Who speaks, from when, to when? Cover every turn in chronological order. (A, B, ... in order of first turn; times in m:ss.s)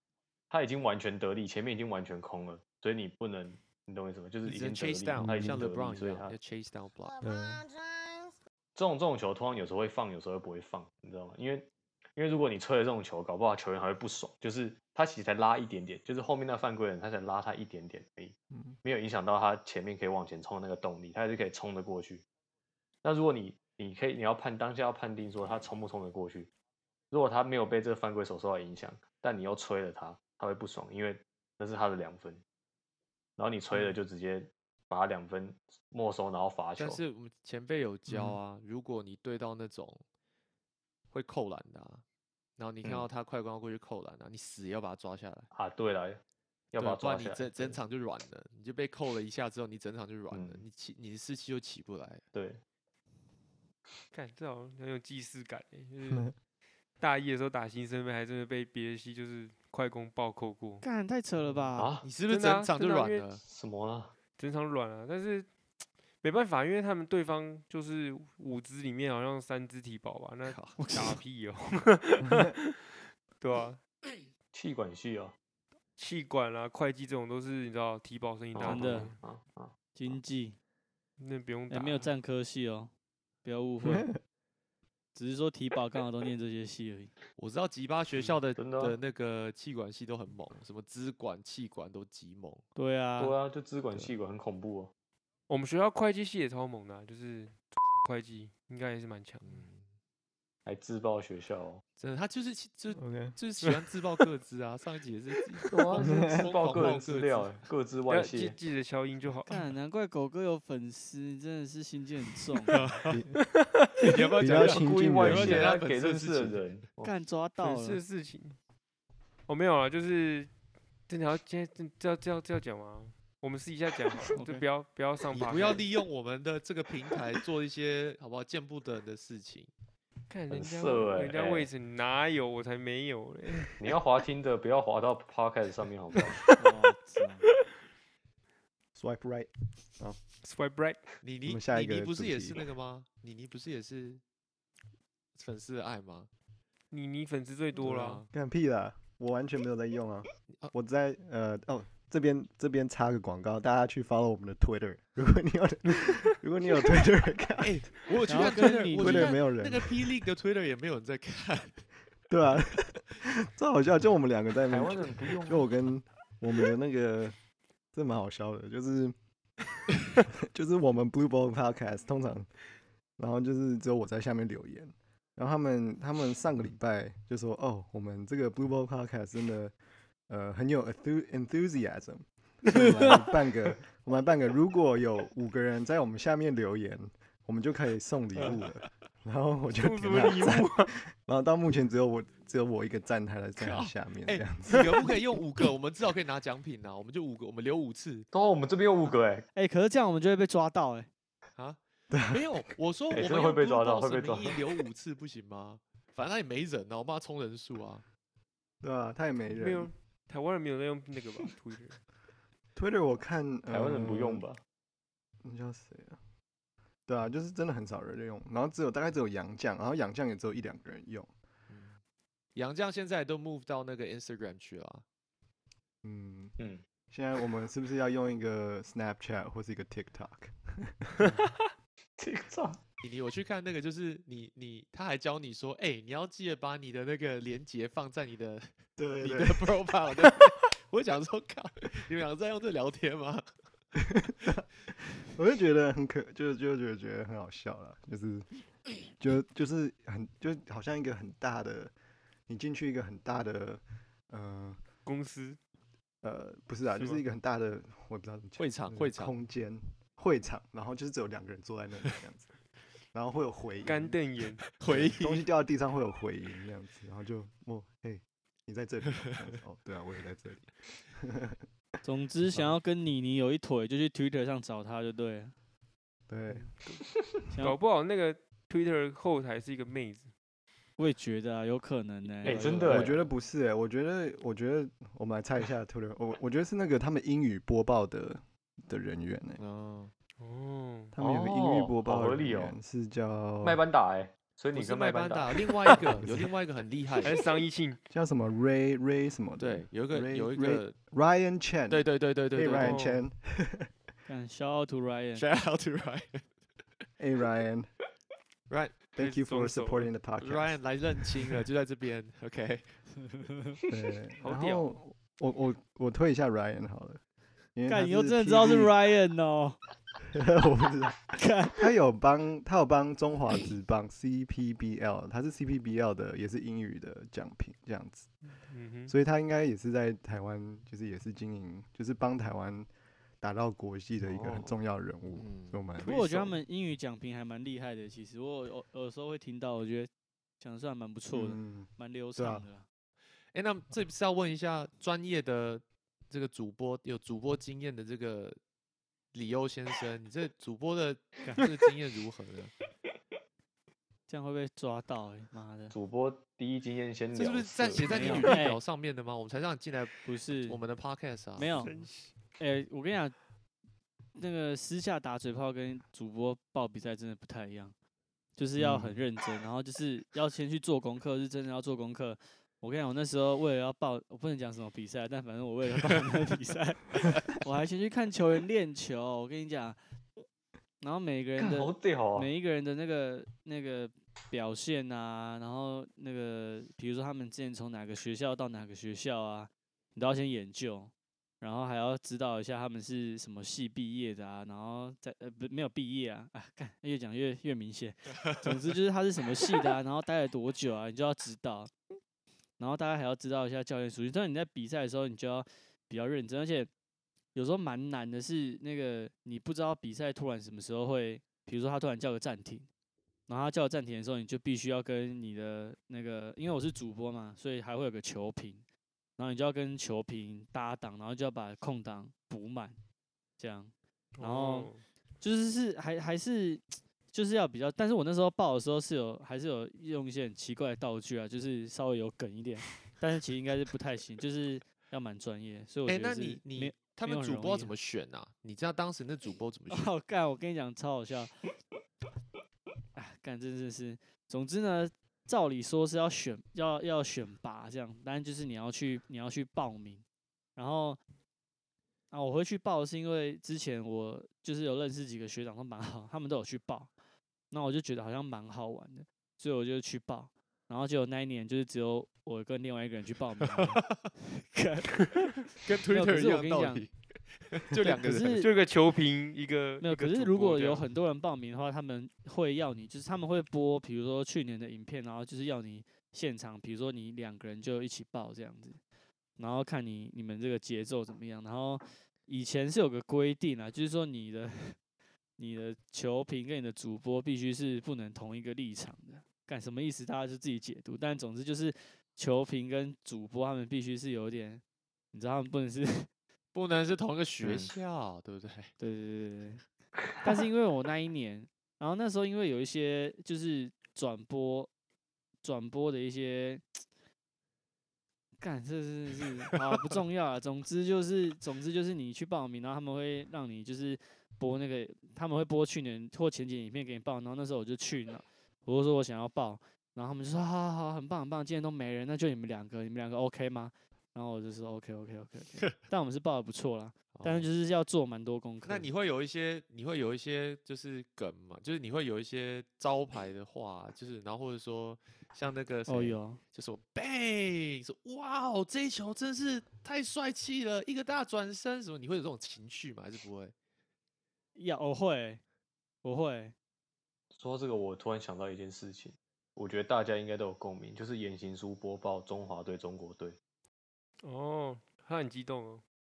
0:00.5-0:06.4 A
0:04.4-0:07.2 B
0:05.2-0:05.6 C
0:07.2-0:07.7 C
0:08.7-0:22.2 A
0:23.0-0:26.5 A
0:27.1-0:32.4 A
0:33.4-0:37.0 A
0:36.8-0:40.0 B
0:38.1-0:38.3 C
0:41.1-0:42.0 B
0:42.6-0:45.5 B
0:45.5-0:46.2 A
0:46.7-0:47.8 A
0:46.8-0:52.2 B
0:50.3-0:50.6 A
0:52.3-0:52.6 A
0:54.1-0:56.3 D
0:57.0-1:00.8 D
1:00.8-1:02.0 E
1:01.8-1:02.0 A
1:02.0-1:03.4 B
1:02.3-1:03.2 D
1:03.4-1:04.1 A
1:04.4-1:05.5 D
1:06.2-1:12.7 D
1:10.4-1:10.8 B
1:10.7-1:11.2 E
1:13.4-1:13.8 D
1:14.5-1:15.3 A
1:16.0-1:19.2 D
1:18.5-1:20.2 A
1:18.6-1:19.1 E
1:19.9-1:20.6 E
1:21.2-1:22.1 D
1:21.7-1:22.9 E
1:23.4-1:24.1 E
1:25.1-1:27.1 E
1:27.4-1:32.6 B
1:28.5-1:29.0 A
1:32.7-1:33.3 E
1:33.2-1:34.9 A
1:35.5-1:39.6 D
1:39.4-1:39.9 B
1:40.6-1:41.8 A
1:42.0-1:47.6 B
1:43.0-1:43.4 C
1:45.7-1:48.6 A
1:46.0-1:46.5 C
1:48.1-1:49.7 D
1:49.5-1:52.8 E
1:52.7-1:53.2 B
1:53.1-1:53.3 C
1:53.8-1:54.1 D
1:54.0-1:56.6 B
1:54.4-1:55.7 C
1:54.5-1:57.1 A
1:57.0-1:58.0 E
1:57.6-1:58.6 D
1:59.5-2:00.5 D
2:01.1-2:05.8 D
2:04.3-2:04.6 E
2:05.3-2:09.7 B
2:10.3-2:13.9 D
2:10.5-2:11.7 A
2:13.7-2:16.4 A
2:16.6-2:17.5 E
2:18.9-2:20.2 C
2:20.4-2:21.0 D
2:21.2-2:24.2 B
2:21.4-2:22.6 C
2:25.3-2:26.3 B
2:26.9-2:28.3 D
2:27.8-2:28.3 B
2:28.3-2:37.8 C
2:37.6-2:41.8 B
2:38.3-2:39.4 E
2:38.9-2:40.0 C
2:42.3-2:47.4 C
2:44.7-2:45.7 A
2:47.9-2:49.1 C
2:50.5-2:52.5 C
2:53.2-2:59.7 C
3:00.3-3:15.1 C
3:09.7-3:10.9 D
3:13.6-3:18.3 B
3:18.3-3:19.4 A
3:19.5-3:21.1 E
3:21.6-3:28.0 B
3:22.1-3:22.4 C
3:23.1-3:24.6 A
3:28.8-3:29.9 C
3:29.6-3:32.0 D
3:32.8-3:34.4 C
3:33.7-3:34.6 A
3:35.4-3:36.2 C
3:37.1-3:41.3 C
3:41.7-3:42.0 B
3:42.5-3:45.0 B
3:46.0-3:46.6 C
3:46.6-3:46.8 A
3:47.1-3:51.2 C
3:52.2-3:52.8 A
3:53.0-3:58.7 B
3:59.0-3:59.7 C
3:59.2-4:03.4 B
4:04.0-4:11.9 C
4:12.5-4:14.8 C
4:15.0-4:15.6 D
4:16.2-4:22.5 C
4:17.0-4:17.2 D
4:18.6-4:19.3 B
4:23.1-4:24.2 C
4:23.8-4:24.6 D
4:24.8-4:25.4 B
4:24.9-4:31.6 C
4:32.0-4:35.5 E
4:32.5-4:32.8 C
4:36.3-4:36.7 C
4:37.5-4:37.8 E
4:37.6-4:40.3 D
4:41.0-4:43.2 E
4:42.4-4:43.1 A
4:42.8-4:49.6 C
4:49.6-4:50.1 B
4:50.4-4:51.1 D
4:51.1-4:53.8 C
4:51.2-4:52.8 A
4:53.6-4:56.0 A
4:54.7-4:57.4 B
4:56.0-4:56.4 C
4:57.2-4:58.0 D
4:58.1-5:03.9 C
4:59.6-5:01.0 B
5:01.9-5:03.0 B
5:02.8-5:03.2 D
5:04.3-5:05.4 E
5:05.3-5:06.5 B
5:07.2-5:07.9 C
5:08.7-5:09.0 B
5:09.2-5:10.1 D
5:09.2-5:10.8 C
5:10.4-5:12.9 B
5:13.9-5:17.2 C
5:14.4-5:15.0 D
5:17.7-5:19.0 C
5:17.9-5:19.8 E
5:20.3-5:28.3 C
5:21.4-5:21.9 E
5:28.5-5:29.1 D
5:29.1-5:32.9 C
5:33.4-5:36.6 C
5:34.3-5:34.6 A
5:35.4-5:35.8 B
5:36.0-5:42.8 E
5:41.3-5:42.6 C
5:43.5-5:48.6 B
5:49.3-5:52.7 B
5:54.3-5:55.9 E
5:55.9-5:58.4 A
5:57.3-6:00.1 B
5:58.0-5:58.8 E
6:00.2-6:00.8 E
6:00.6-6:01.9 B
6:01.6-6:01.9 E
6:01.9-6:02.1 D
6:02.6-6:03.4 E
6:04.3-6:07.9 E
6:08.6-6:20.4 E
6:08.8-6:09.2 C
6:21.0-6:41.9 E
6:21.6-6:22.5 A
6:42.8-6:46.9 E
6:47.5-6:52.9 E
6:53.5-6:58.8 E
6:59.4-7:03.0 E
7:03.6-7:17.9 E
7:04.4-7:05.0 D
7:16.1-7:20.1 B
7:19.9-7:21.6 E
7:23.1-7:30.2 E
7:30.8-7:31.2 E
7:32.3-7:37.1 E
7:37.7-7:47.1 E
7:43.6-7:44.2 B
7:45.7-7:48.7 B
7:48.0-7:48.7 E
7:48.4-7:51.1 D
7:50.0-7:59.0 E
7:59.6-8:05.0 E
8:05.6-8:14.8 E
8:15.3-8:16.3 E
8:16.7-8:18.9 B
8:17.6-8:17.9 A
8:19.0-8:19.8 E
8:20.4-8:24.9 E
8:25.6-8:27.0 E
8:28.6-8:49.0 E
8:47.3-8:47.7 B
8:48.8-9:03.7 B
8:56.1-8:56.6 E
9:04.8-9:05.6 E
9:06.2-9:06.7 E
9:07.5-9:13.6 A
9:14.4-9:16.0 D